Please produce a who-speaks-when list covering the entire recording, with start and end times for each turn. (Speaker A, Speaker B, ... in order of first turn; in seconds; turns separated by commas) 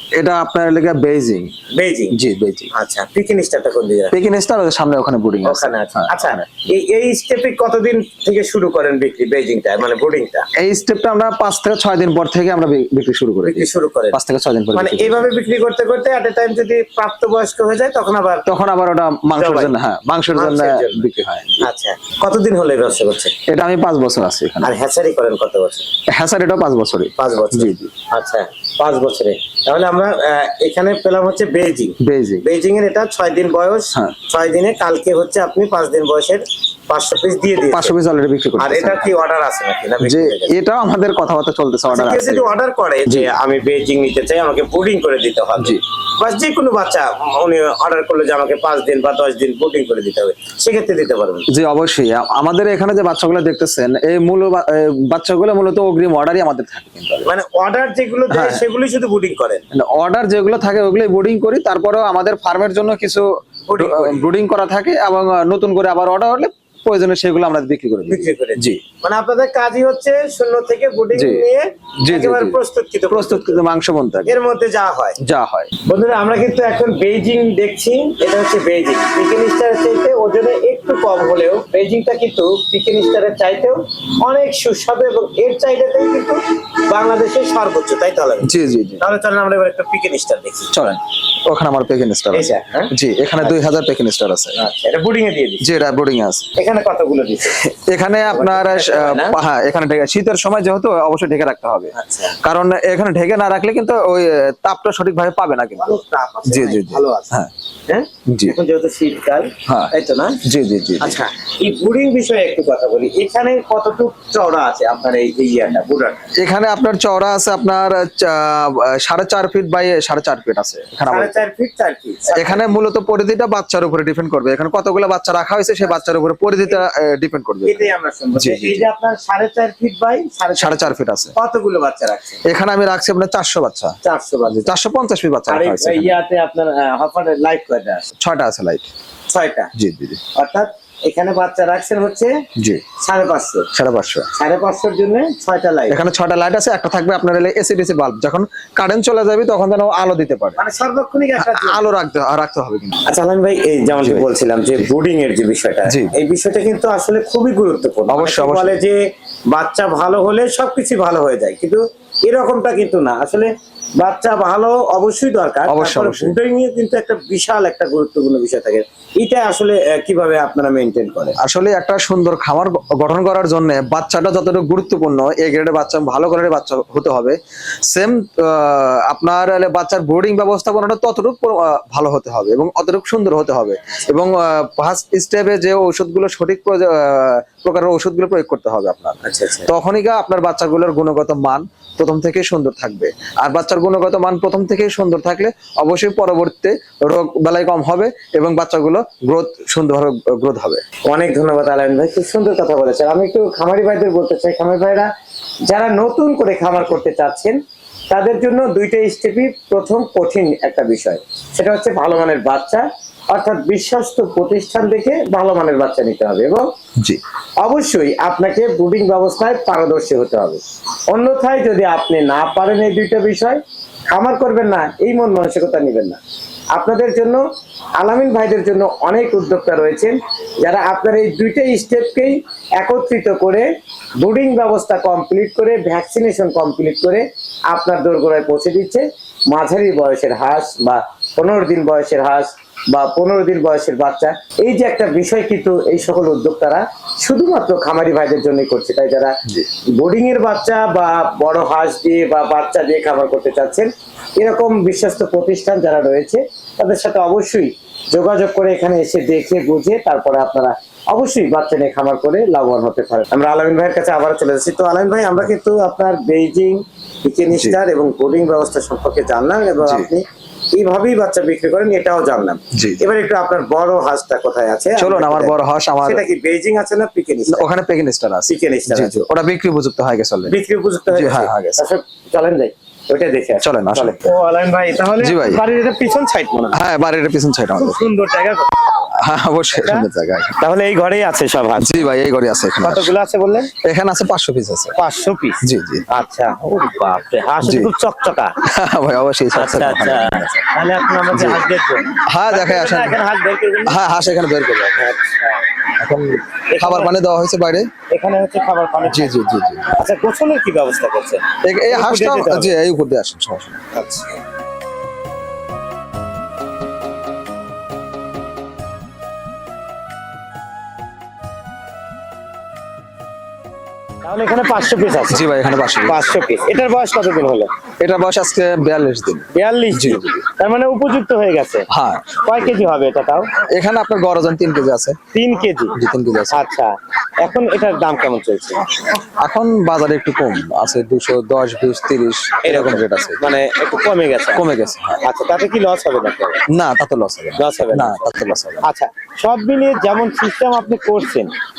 Speaker A: 0.2-1.5, Speaker B: 1.8-2.2, Speaker A: 2.1-2.7, Speaker B: 2.7-4.1, Speaker A: 4.1-6.4, Speaker B: 5.4-10.5, Speaker A: 10.6-15.3, Speaker B: 13.4-14.2, Speaker B: 14.7-18.5, Speaker A: 18.4-21.7, Speaker B: 19.3-19.7, Speaker B: 20.3-23.3, Speaker A: 23.5-24.7, Speaker B: 24.6-25.9, Speaker A: 26.1-27.9, Speaker B: 27.2-37.9, Speaker A: 32.0-32.4, Speaker A: 37.7-39.2, Speaker B: 38.6-40.6, Speaker A: 40.0-42.5, Speaker B: 41.9-51.5, Speaker A: 51.5-57.3, Speaker B: 57.2-59.6, Speaker A: 58.3-58.6, Speaker A: 59.7-68.8, Speaker B: 63.7-64.2, Speaker B: 68.1-73.6, Speaker A: 71.1-71.4, Speaker A: 72.0-72.6, Speaker A: 73.1-74.4, Speaker B: 74.2-75.2, Speaker A: 75.2-75.7, Speaker B: 75.8-90.7, Speaker A: 88.4-89.0, Speaker A: 90.7-94.6, Speaker B: 92.3-93.6, Speaker B: 94.5-95.7, Speaker A: 95.6-96.5, Speaker B: 96.5-97.6, Speaker A: 97.6-105.9, Speaker B: 98.3-99.4, Speaker B: 101.9-102.4, Speaker B: 105.8-107.3, Speaker A: 106.5-107.5, Speaker B: 107.9-110.4, Speaker A: 108.3-108.6, Speaker A: 109.7-109.9, Speaker A: 110.4-111.2, Speaker B: 111.0-116.3, Speaker A: 116.4-121.4, Speaker B: 121.1-122.7, Speaker A: 122.3-128.9, Speaker B: 127.6-132.4, Speaker A: 130.6-131.3, Speaker A: 132.5-133.9, Speaker B: 134.0-134.7, Speaker A: 134.5-136.2, Speaker B: 135.5-138.1, Speaker A: 138.2-138.9, Speaker B: 139.3-139.7, Speaker A: 139.7-140.2, Speaker B: 140.3-142.3, Speaker A: 142.6-142.8, Speaker B: 143.0-143.7, Speaker A: 143.7-144.3, Speaker B: 144.3-146.0, Speaker A: 145.9-150.6, Speaker B: 150.6-151.9, Speaker A: 151.4-153.0, Speaker B: 153.1-171.4, Speaker A: 154.0-154.3, Speaker A: 155.9-156.1, Speaker A: 158.1-158.8, Speaker A: 165.7-166.3, Speaker A: 171.4-200.8, Speaker B: 189.2-189.7, Speaker B: 201.1-205.1, Speaker B: 205.7-207.6, Speaker B: 208.1-216.7, Speaker B: 217.6-226.2, Speaker B: 226.7-227.4, Speaker B: 228.0-233.7, Speaker B: 234.2-249.4, Speaker B: 249.9-277.7, Speaker A: 267.5-267.8, Speaker A: 269.8-270.1, Speaker A: 272.7-273.0, Speaker A: 275.0-276.2, Speaker A: 277.5-280.5, Speaker B: 278.5-279.1, Speaker B: 280.5-286.8, Speaker A: 281.1-281.8, Speaker A: 283.6-284.2, Speaker A: 285.2-285.6, Speaker A: 286.7-288.0, Speaker B: 287.8-289.1, Speaker A: 289.2-290.5, Speaker B: 289.7-290.1, Speaker B: 290.6-292.0, Speaker A: 291.8-293.1, Speaker B: 292.8-293.7, Speaker A: 293.8-294.9, Speaker B: 294.9-298.6, Speaker A: 295.6-296.0, Speaker A: 297.6-297.9, Speaker A: 298.6-300.5, Speaker B: 299.5-304.0, Speaker A: 301.3-301.6, Speaker A: 302.3-303.1, Speaker A: 303.9-305.1, Speaker B: 305.0-305.6, Speaker A: 306.0-307.9, Speaker B: 306.7-307.1, Speaker B: 308.1-312.7, Speaker A: 309.1-309.9, Speaker A: 311.6-313.8, Speaker B: 313.9-314.4, Speaker B: 324.2-325.5, Speaker A: 325.3-326.3, Speaker B: 326.0-327.7, Speaker A: 328.0-330.4, Speaker B: 329.5-331.9, Speaker A: 331.9-332.6, Speaker B: 332.4-333.5, Speaker A: 333.7-335.2, Speaker B: 335.3-335.9, Speaker A: 335.9-336.6, Speaker B: 336.5-338.8, Speaker A: 339.1-343.4, Speaker B: 342.6-344.6, Speaker A: 344.5-345.2, Speaker B: 345.2-346.6, Speaker A: 346.7-348.8, Speaker B: 347.6-348.3, Speaker B: 348.8-351.5